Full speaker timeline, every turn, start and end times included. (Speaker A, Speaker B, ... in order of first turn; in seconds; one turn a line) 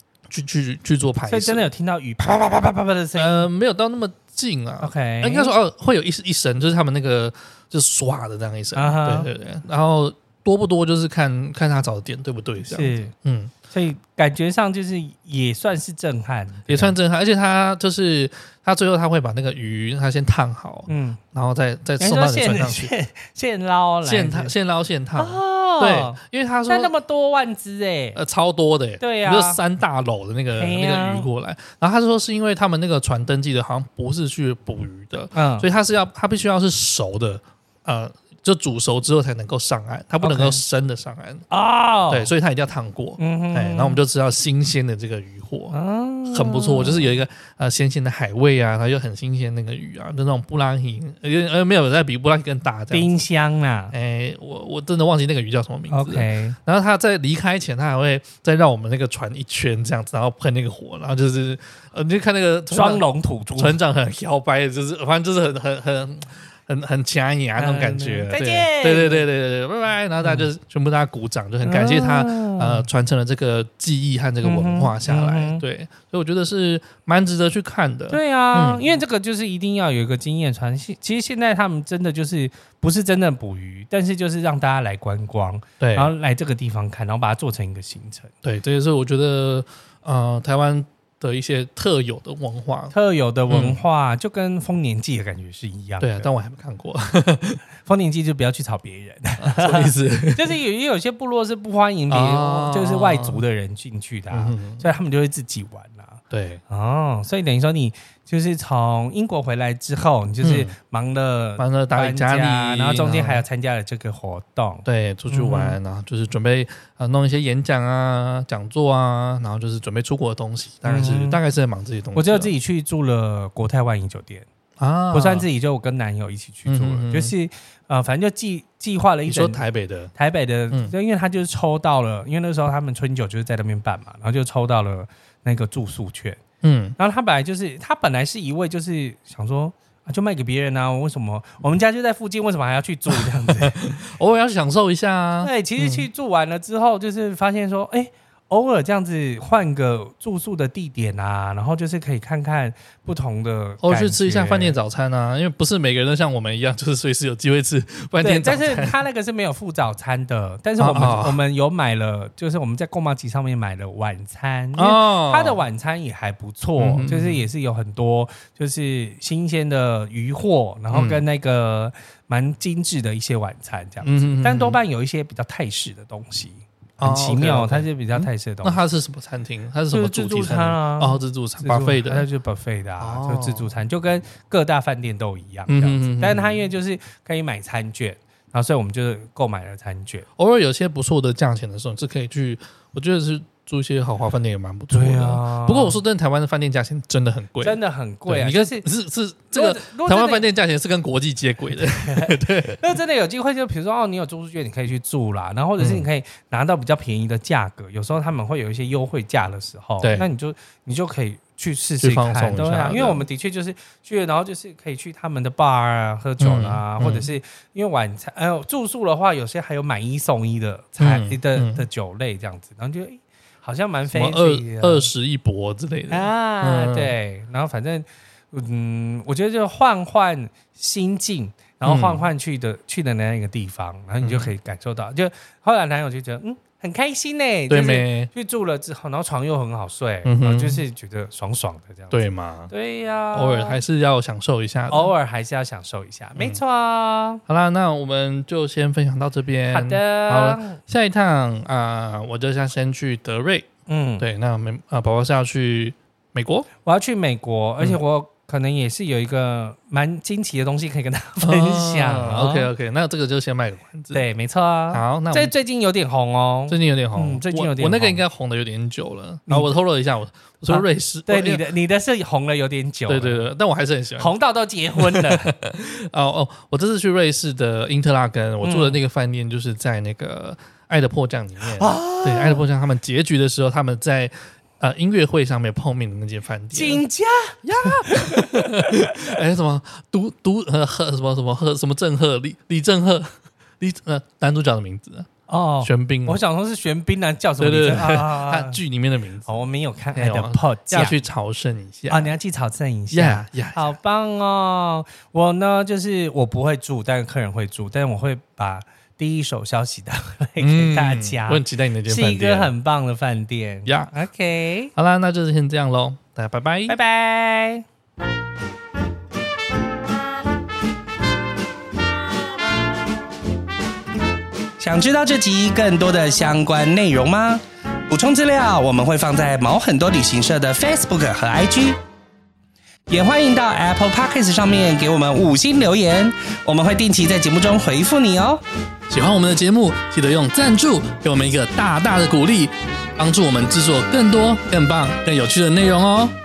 Speaker A: 0.3-1.7
Speaker B: 1.3-3.5
Speaker A: 3.1-13.5
Speaker B: 4.8-5.5
Speaker B: 8.8-9.3
Speaker B: 12.6-13.1
Speaker B: 13.7-16.9
Speaker A: 16.7-22.9
Speaker B: 20.9-21.2
Speaker B: 22.0-24.5
Speaker A: 24.0-26.9
Speaker B: 25.2-28.2
Speaker A: 28.1-41.5
Speaker B: 29.0-29.6
Speaker B: 30.5-31.2
Speaker B: 35.3-35.7
Speaker B: 40.2-40.6
Speaker B: 41.5-42.3
Speaker A: 42.1-45.7
Speaker B: 43.2-44.0
Speaker B: 45.7-47.1
Speaker A: 46.3-53.1
Speaker B: 52.9-53.9
Speaker A: 53.9-63.0
Speaker B: 55.9-56.6
Speaker B: 62.7-63.8
Speaker A: 63.6-78.8
Speaker B: 67.6-69.2
Speaker B: 70.2-70.5
Speaker B: 71.6-72.8
Speaker B: 74.4-75.6
Speaker B: 78.1-88.3
Speaker A: 85.8-86.1
Speaker A: 88.4-92.9
Speaker B: 92.9-96.3
Speaker A: 93.5-93.8
Speaker A: 96.0-97.6
Speaker B: 97.8-115.8
Speaker A: 99.4-100.5
Speaker A: 102.1-103.4
Speaker A: 104.3-104.9
Speaker A: 106.3-106.6
Speaker A: 110.4-110.7
Speaker A: 111.6-113.4
Speaker A: 114.8-122.5
Speaker B: 120.8-121.4
Speaker B: 122.1-124.5
Speaker A: 124.8-125.5
Speaker B: 125.1-129.6
Speaker A: 126.7-127.3
Speaker A: 129.2-130.1
Speaker B: 130.1-136.4
Speaker A: 136.6-137.0
Speaker B: 137.0-143.8
Speaker A: 143.1-146.1
Speaker B: 145.4-154.8
Speaker A: 153.8-158.9
Speaker B: 158.2-178.8
Speaker A: 160.8-161.4
Speaker A: 164.8-165.6
Speaker A: 166.8-167.4
Speaker A: 170.9-171.2
Speaker A: 174.0-174.8
Speaker A: 177.0-182.2
Speaker B: 179.9-190.2
Speaker A: 183.0-183.7
Speaker A: 185.7-186.6
Speaker A: 190.4-202.8
Speaker B: 194.9-196.0
Speaker B: 197.6-198.8
Speaker B: 199.5-200.4
Speaker B: 201.8-225.1
Speaker A: 205.8-206.1
Speaker A: 210.0-210.3
Speaker A: 212.0-213.2
Speaker A: 216.4-217.3
Speaker A: 221.0-221.8
Speaker A: 224.1-227.1
Speaker B: 226.1-243.8
Speaker A: 231.8-232.3
Speaker A: 234.2-234.5
Speaker A: 237.7-238.3
Speaker A: 240.2-240.8
Speaker A: 242.1-242.7
Speaker A: 243.3-245.1
Speaker B: 244.9-247.4
Speaker A: 246.3-246.6
Speaker A: 247.5-253.7
Speaker B: 249.7-250.8
Speaker B: 253.9-254.2
Speaker A: 254.2-256.7
Speaker B: 256.8-262.7
Speaker A: 261.4-264.2
Speaker B: 264.1-268.2
Speaker A: 264.9-265.5
Speaker A: 266.7-271.6
Speaker B: 270.7-273.4
Speaker A: 273.1-274.3
Speaker B: 274.2-275.5
Speaker A: 274.9-287.0
Speaker B: 278.6-279.0
Speaker B: 281.6-282.6
Speaker B: 286.7-289.1
Speaker A: 287.6-295.3
Speaker B: 295.5-298.8
Speaker A: 295.8-296.4
Speaker A: 297.6-299.6
Speaker B: 299.4-301.2
Speaker A: 300.1-302.3
Speaker B: 302.1-314.9
Speaker A: 303.1-304.0
Speaker A: 310.6-312.7
Speaker A: 313.9-314.1
Speaker A: 314.9-317.0
Speaker B: 316.9-317.9
Speaker B: 324.8-332.0
Speaker B: 333.1-338.6
Speaker A: 339.1-346.3